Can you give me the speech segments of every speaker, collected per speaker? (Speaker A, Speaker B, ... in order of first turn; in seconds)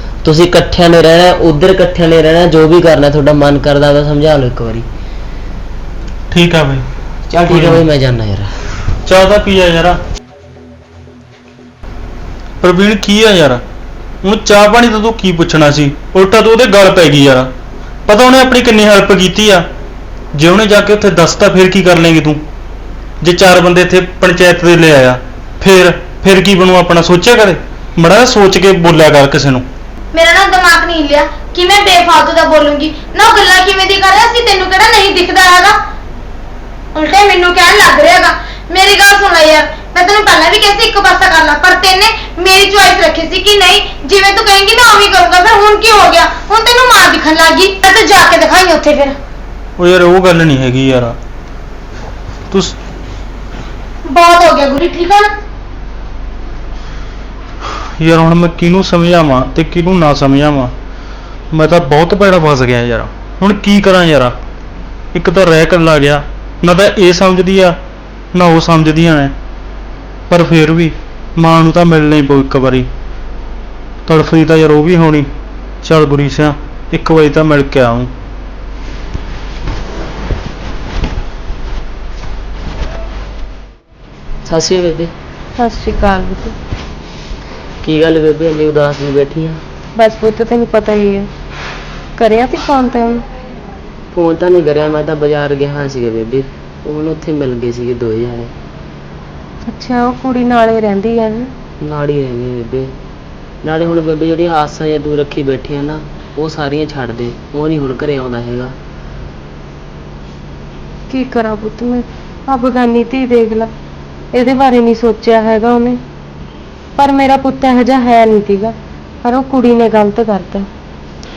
Speaker A: 0.2-4.8, 7.3-8.5, 84.5-85.1, 87.8-89.6, 94.1-98.5, 101.8-102.9, 103.6-108.7
Speaker B: 6.3-6.8, 7.4-7.9, 9.1-10.0, 12.6-13.6, 14.2-17.5, 18.1-19.7, 20.3-22.4, 23.2-29.6, 49.8-51.1, 52.5-52.8, 58.0-60.7, 61.5-64.3, 65.1-67.8, 68.3-69.3, 70.3-72.9, 74.1-75.3, 75.8-78.1
Speaker C: 30.1-35.8, 36.9-49.1, 54.1-55.3
Speaker D: 85.6-86.5, 90.0-91.3, 92.2-93.2, 99.7-101.5, 111.1-113.7, 114.3-116.0, 117.0-120.7